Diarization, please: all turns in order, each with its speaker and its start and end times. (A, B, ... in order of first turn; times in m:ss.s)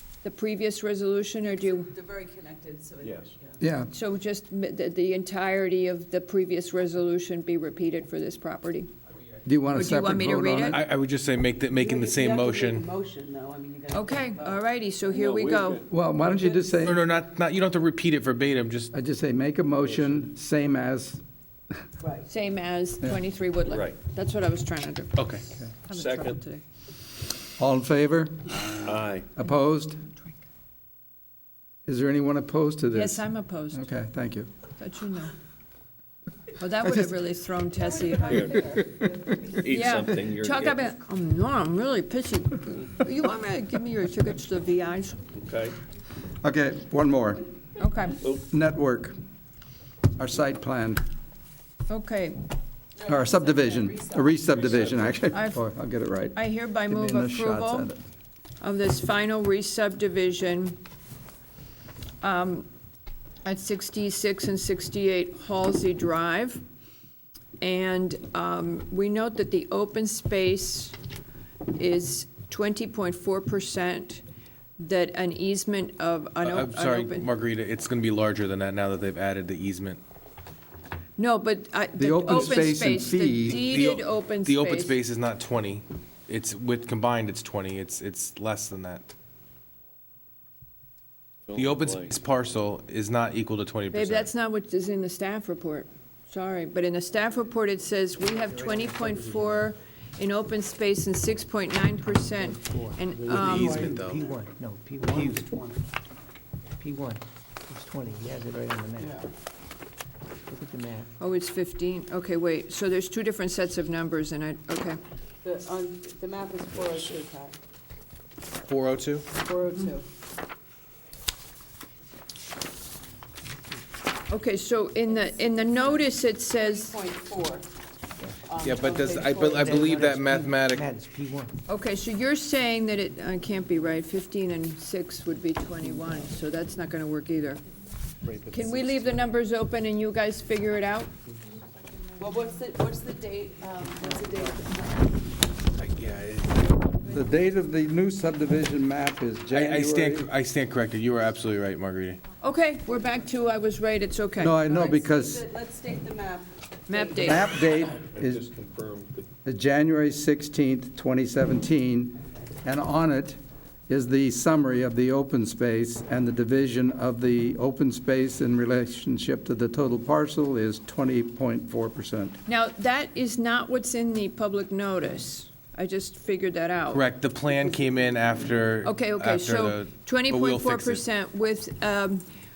0:00.2-0:01.9 A
0:01.8-0:03.2 B
0:03.0-0:03.3 C
0:03.6-0:03.9 D
0:03.9-0:08.9 A
0:09.4-0:10.8 D
0:09.7-0:10.8 A
0:10.7-0:12.9 E
0:11.7-0:14.6 B
0:13.9-0:15.8 A
0:15.1-0:15.9 C
0:15.9-0:17.0 D
0:16.2-0:16.7 B
0:16.8-0:18.9 E
0:18.9-0:21.2 D
0:22.0-0:22.3 B
0:22.3-0:26.6 A
0:23.7-0:24.0 C
0:25.2-0:25.4 E
0:25.9-0:26.4 C
0:27.6-0:30.0 D
0:28.8-0:29.3 C
0:31.9-0:34.5 D
0:32.9-0:33.9 A
0:34.8-0:35.3 A
0:36.6-0:38.8 A
0:38.2-0:38.7 C
0:39.5-0:40.8 C
0:39.6-0:45.2 A
0:45.4-0:45.8 C
0:46.4-0:47.5 D
0:47.8-0:48.2 A
0:48.5-0:49.2 D
0:50.2-0:51.0 D
0:51.9-0:52.4 A
0:53.0-0:54.3 B
0:53.1-0:58.0 D
0:54.5-0:55.2 C
0:55.3-0:55.6 A
0:56.4-0:57.9 A
0:58.6-1:00.8 A
1:02.2-1:02.7 A
1:03.4-1:06.6 A
1:07.6-1:11.0 A
1:11.7-1:14.2 A
1:14.8-1:17.3 A
1:16.4-1:20.0 E
1:21.2-1:25.0 A
1:22.0-1:23.7 D
1:23.5-1:29.1 E
1:31.5-1:32.2 C
1:31.6-1:34.3 E
1:33.9-1:43.9 A
1:38.6-1:39.5 F
1:42.4-1:45.6 F
1:43.3-1:44.4 E
1:45.0-1:45.7 B
1:46.8-1:49.2 F
1:50.5-1:51.1 F
1:51.2-1:55.0 A
1:55.4-1:57.6 B
1:58.7-1:59.3 E
1:59.3-2:00.0 B
2:04.3-2:07.0 A
2:05.1-2:07.7 B
2:08.5-2:09.9 B
2:08.6-2:10.9 E
2:09.6-2:11.5 F
2:11.7-2:17.6 A
2:18.3-2:19.0 F
2:18.5-2:21.1 A
2:22.2-2:25.2 B
2:25.8-2:26.8 E
2:27.1-2:30.3 D
2:29.5-2:32.2 E
2:32.4-2:34.6 A
2:34.4-2:35.4 D
2:34.6-2:37.4 B
2:36.9-2:37.5 A
2:37.2-2:38.4 D
2:38.1-2:39.3 C
2:39.4-2:43.4 D
2:43.9-2:52.4 D
2:52.5-2:57.1 A
2:56.9-3:01.0 E
2:58.8-3:02.2 A